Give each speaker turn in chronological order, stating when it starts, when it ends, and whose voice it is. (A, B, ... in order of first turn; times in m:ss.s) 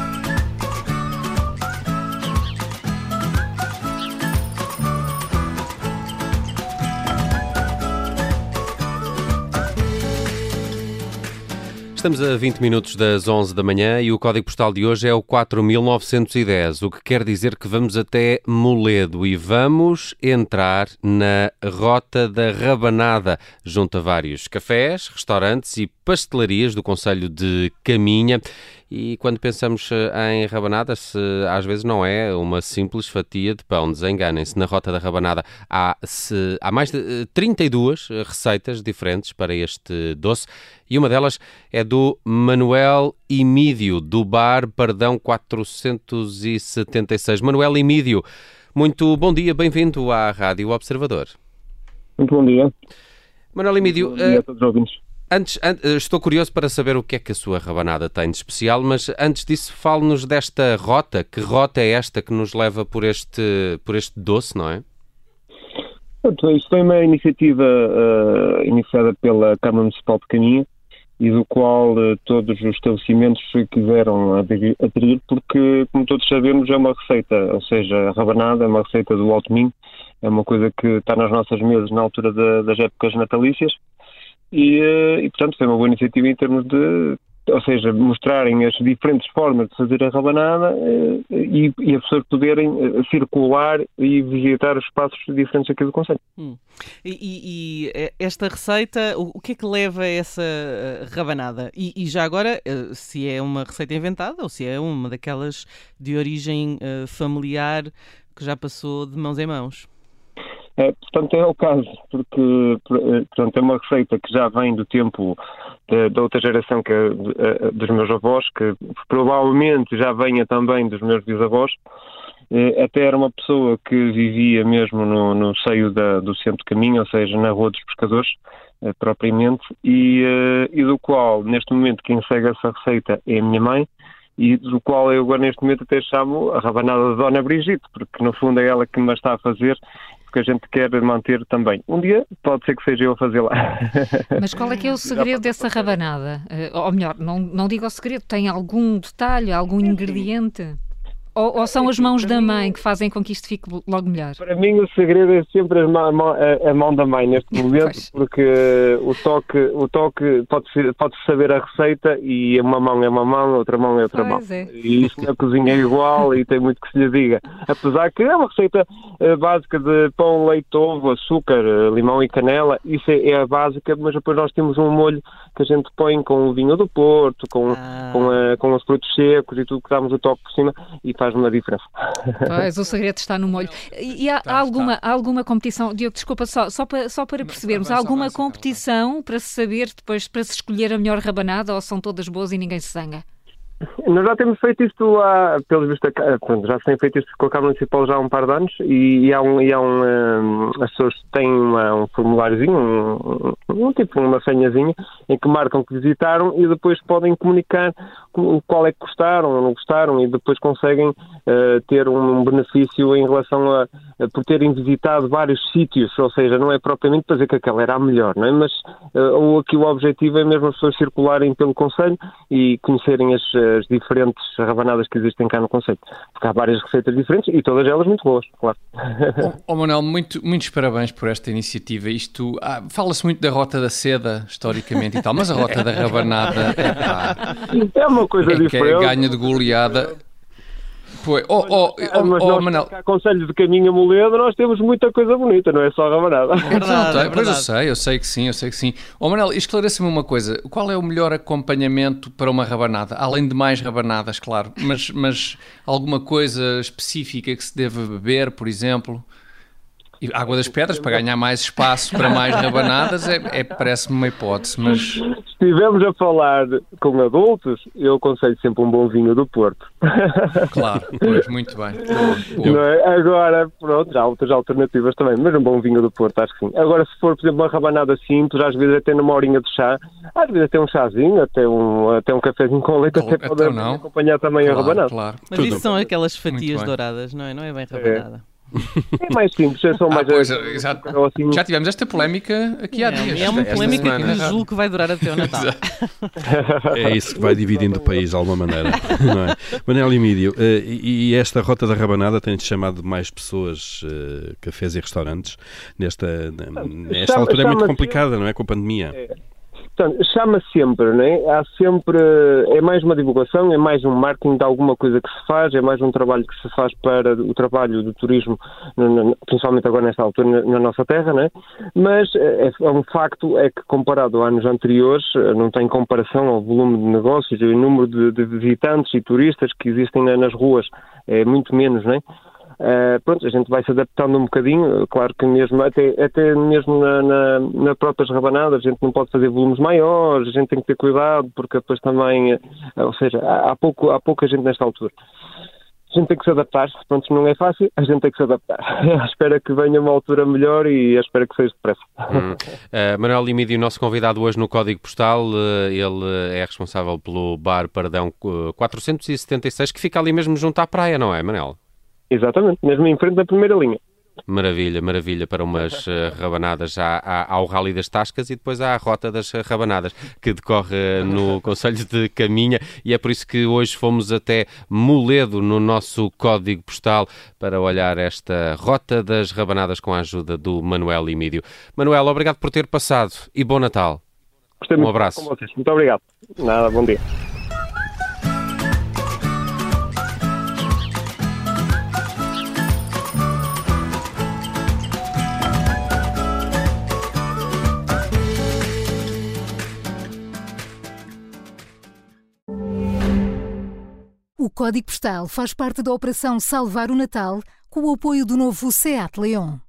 0:11.9-0:48.2 A
0:48.8-0:51.3 A
0:52.2-0:52.7 B
0:53.5-0:54.4 A
0:53.8-0:55.0 B
0:55.3-1:04.8 A
1:06.2-1:10.6 B
1:11.2-1:23.8 B
1:24.5-1:36.2 B
1:36.4-1:49.9 C
1:50.8-2:01.8 B
2:02.5-2:13.9 B
2:14.4-2:19.8 B
2:20.3-2:24.3 B
2:24.3-2:30.8 D
2:25.1-2:26.0 B
2:31.3-2:34.4 D
2:34.4-3:02.4 B
2:44.1-2:44.7 D
2:57.7-2:58.5 C
3:02.4-3:13.2 D
3:04.4-3:04.9 E
3:07.4-3:08.8 E
3:14.0-3:49.4 B
3:49.4-3:57.5 E
3:57.6-3:59.3 B
3:58.4-4:00.1 E
4:01.2-4:02.9 E
4:01.6-4:06.8 B
4:06.6-4:07.7 C
4:06.7-4:19.2 E
4:20.2-4:25.2 E
4:25.0-4:30.6 B
4:30.7-4:32.8 E
4:32.1-4:45.1 B
4:43.1-4:44.0 E
4:44.6-4:45.5 E
4:45.5-4:48.8 C
4:46.5-4:46.9 E
4:48.0-4:48.2 B
4:49.2-4:51.6 B
4:50.1-4:54.6 E
4:52.9-4:56.3 C
4:53.5-4:54.5 A
4:55.2-4:55.8 E
4:56.5-4:57.1 B
4:56.9-5:09.2 F
4:57.7-4:58.2 B
5:07.1-5:08.2 B
5:10.0-5:32.2 B
5:32.8-5:45.1 B
5:46.1-5:52.4 B
5:52.3-6:01.8 A
6:02.3-6:04.0 B
6:04.5-6:24.2 A
6:24.8-6:27.2 B
6:25.0-6:25.4 A
6:44.6-6:49.8 G